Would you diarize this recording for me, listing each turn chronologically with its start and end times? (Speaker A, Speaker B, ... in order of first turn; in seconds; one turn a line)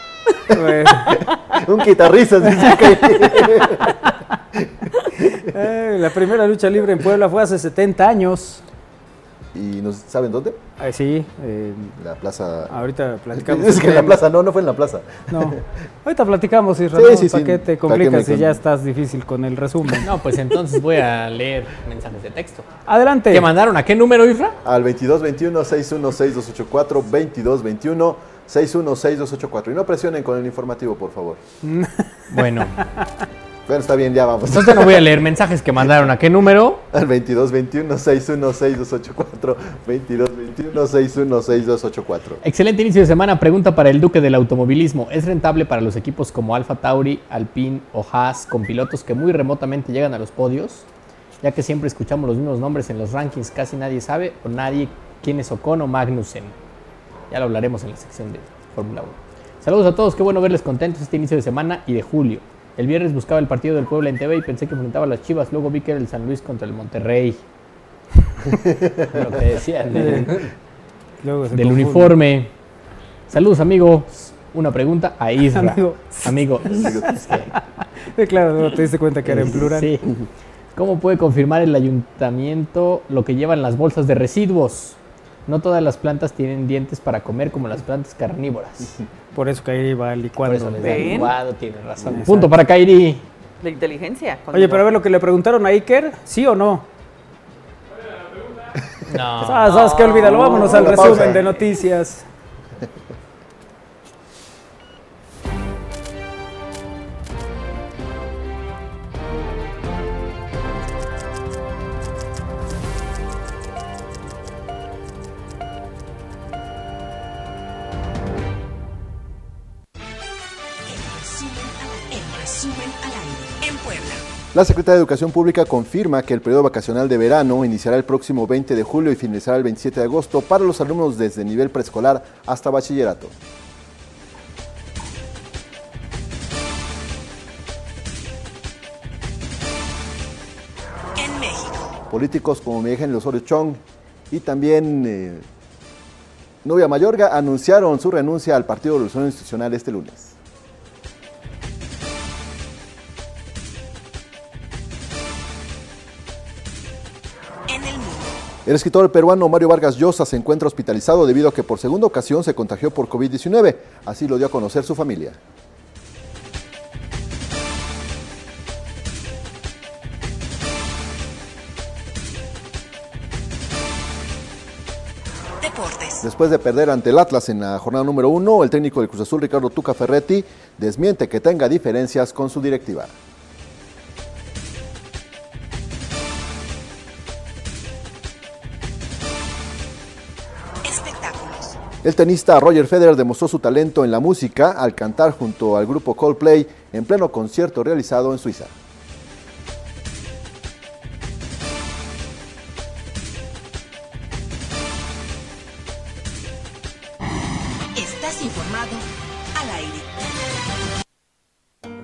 Speaker A: 0.3-1.3
Speaker B: 0.5-1.2
Speaker C: 1.5-3.9
Speaker C: 4.5-5.3
Speaker B: 5.2-8.6
Speaker C: 9.5-10.6
Speaker B: 10.8-12.0
Speaker C: 12.0-12.8
Speaker B: 12.7-14.2
Speaker C: 13.3-15.6
Speaker B: 15.3-20.1
Speaker C: 16.9-18.6
Speaker D: 20.0-22.6
Speaker B: 22.9-23.5
Speaker D: 23.3-24.5
Speaker C: 24.6-31.4
Speaker B: 31.6-32.2
Speaker D: 32.3-32.8
Speaker C: 33.7-35.2
Speaker D: 34.5-36.8
Speaker C: 36.9-42.4
Speaker D: 42.4-50.9
Speaker D: 51.4-56.5
Speaker D: 57.3-67.4
Speaker C: 68.8-69.2
Speaker D: 69.0-70.5
Speaker B: 69.9-70.3
Speaker B: 71.2-72.1
Speaker D: 71.5-72.5
Speaker D: 73.3-77.5
Speaker B: 75.5-77.1
Speaker C: 76.7-77.1
Speaker B: 78.1-79.9
Speaker D: 79.3-80.2
Speaker D: 80.7-89.0
Speaker B: 89.3-91.3
Speaker D: 90.4-93.2
Speaker A: 90.8-91.3
Speaker B: 92.1-92.5
Speaker A: 93.6-94.8
Speaker B: 94.5-96.9
Speaker D: 99.1-99.8
Speaker B: 99.4-102.2
Speaker A: 99.7-101.6
Speaker C: 100.3-101.4
Speaker E: 120.8-124.2
Speaker C: 124.5-133.3
Speaker E: 141.1-142.0
Speaker C: 142.1-145.4
Speaker C: 146.6-150.4
Speaker E: 157.7-158.4
Speaker C: 158.6-165.4
Speaker E: 175.6-176.2
Speaker C: 176.2-183.1
Speaker E: 190.8-191.8
Speaker C: 192.0-198.7
Speaker E: 207.9-210.6